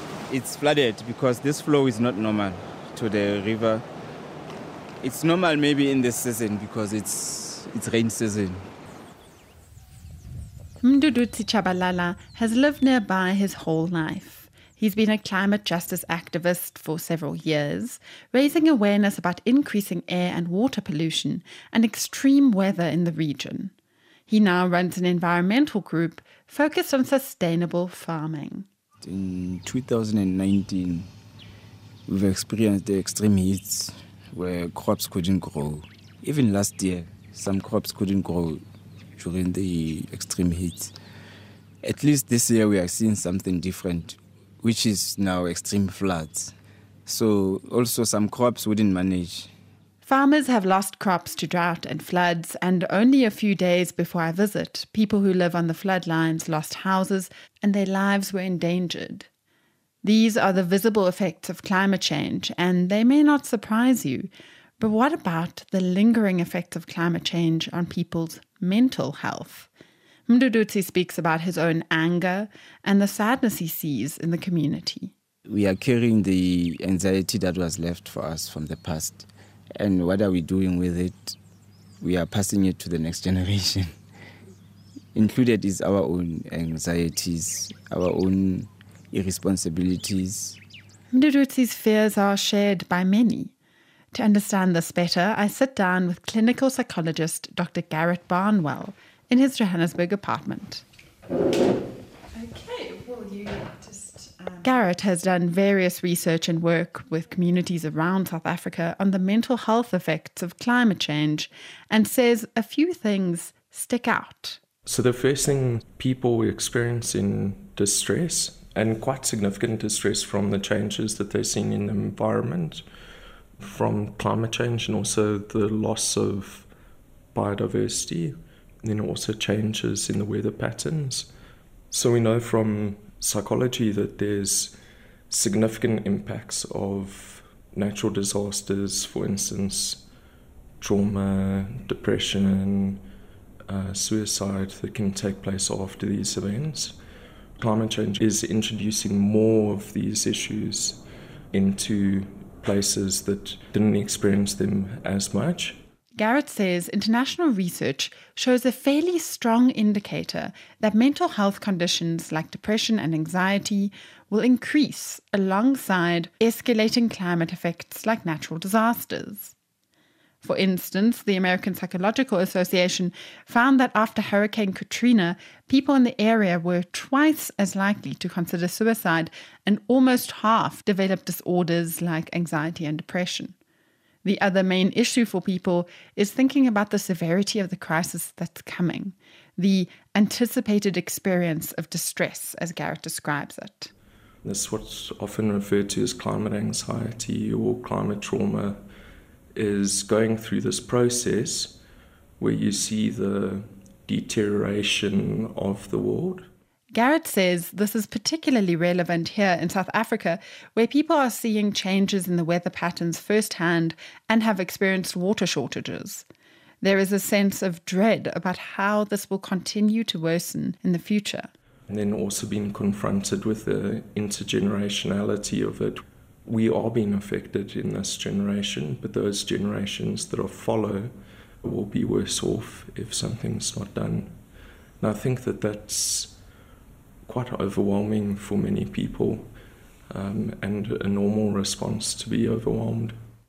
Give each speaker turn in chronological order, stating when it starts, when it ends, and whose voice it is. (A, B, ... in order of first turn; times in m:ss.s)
0:00.3-0:03.8 A
0:05.0-0:08.7 A
0:10.8-0:23.7 B
0:24.3-0:28.7 B
0:29.0-0:31.1 A
0:32.1-0:38.6 A
0:39.2-0:40.9 A
0:41.8-0:46.5 A
0:47.0-0:49.5 A
0:50.0-0:59.3 B
1:00.0-1:09.7 B
1:10.3-1:15.1 B
1:15.4-1:21.4 A
1:22.0-1:24.0 A
1:25.1-1:30.6 A
1:31.1-1:33.5 B
1:34.1-1:40.8 B
1:42.3-1:54.6 B
1:54.8-2:02.8 C
2:03.6-2:06.7 C
2:07.3-2:11.3 C
2:11.9-2:14.8 C
2:15.3-2:20.0 C
2:20.8-2:23.1 C
2:23.6-2:27.0 C
2:27.6-2:35.8 C
2:36.2-2:49.5 B
2:50.4-3:03.5 B
3:04.2-3:13.9 B
3:14.4-3:18.8 C
3:19.5-3:21.8 C
3:22.4-3:26.5 C
3:26.9-3:36.2 B
3:36.8-3:41.5 B
3:41.9-3:54.4 C
3:55.0-3:56.4 C
3:57.2-3:59.5 C
4:00.1-4:03.2 C